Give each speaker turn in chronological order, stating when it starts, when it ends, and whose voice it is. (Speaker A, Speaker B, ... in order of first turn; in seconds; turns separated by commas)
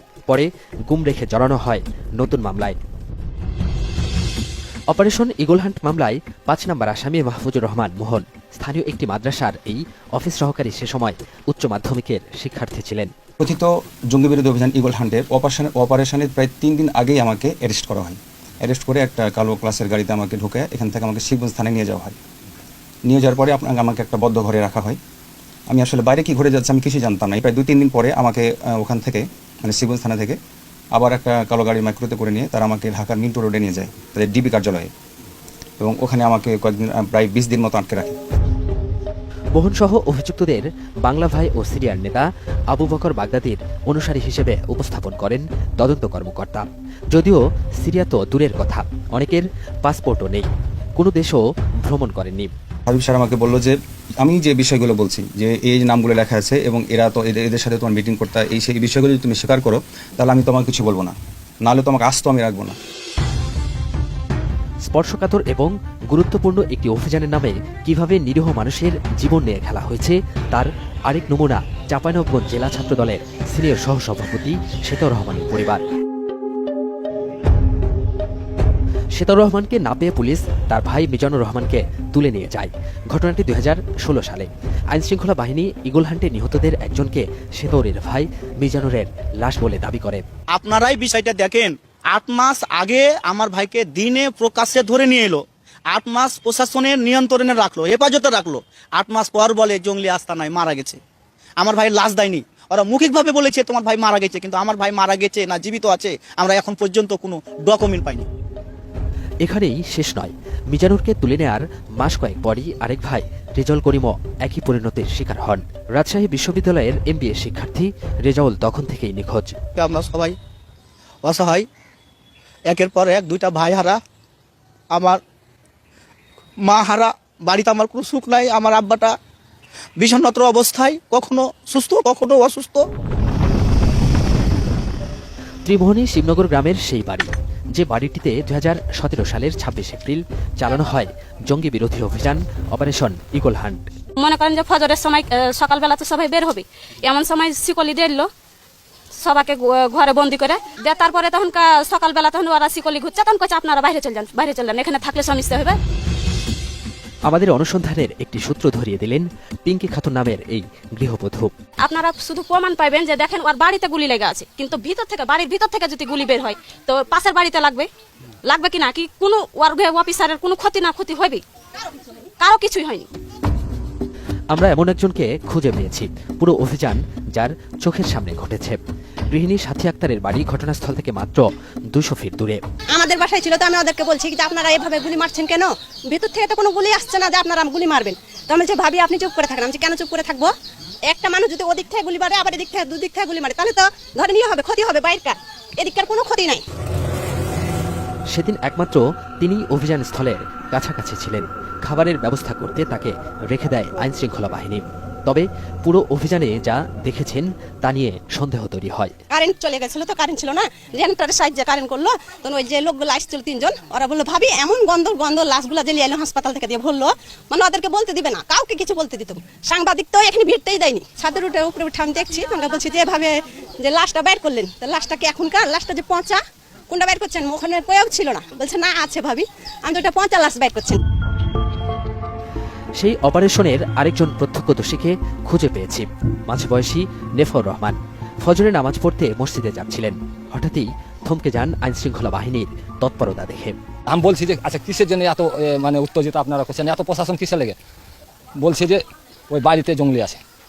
Speaker A: 0.3-2.8, Speaker A: 4.9-13.1, Speaker B: 13.4-22.2, Speaker B: 23.1-25.0, Speaker B: 25.7-30.4, Speaker B: 31.0-34.9, Speaker B: 35.8-38.2, Speaker A: 39.5-52.5, Speaker B: 52.9-62.8, Speaker A: 64.9-75.8, Speaker A: 79.2-90.2, Speaker C: 90.6-95.4, Speaker C: 95.9-101.0, Speaker C: 101.6-108.3, Speaker A: 109.4-119.6, Speaker C: 119.8-120.4, Speaker C: 121.2-121.7, Speaker C: 122.7-124.0, Speaker C: 125.0-125.2, Speaker C: 126.7-129.2, Speaker C: 130.0-132.8, Speaker A: 135.7-143.9, Speaker D: 144.2-148.3, Speaker D: 149.2-155.8, Speaker A: 157.3-161.5, Speaker D: 161.8-167.9, Speaker D: 168.5-171.4, Speaker D: 172.4-173.1, Speaker A: 174.5-178.8, Speaker A: 179.3-182.6, Speaker E: 182.9-190.5, Speaker E: 191.1-196.6, Speaker A: 198.3-209.2, Speaker E: 209.3-231.0, Speaker A: 233.0-243.8, Speaker F: 244.1-247.8, Speaker F: 248.6-250.4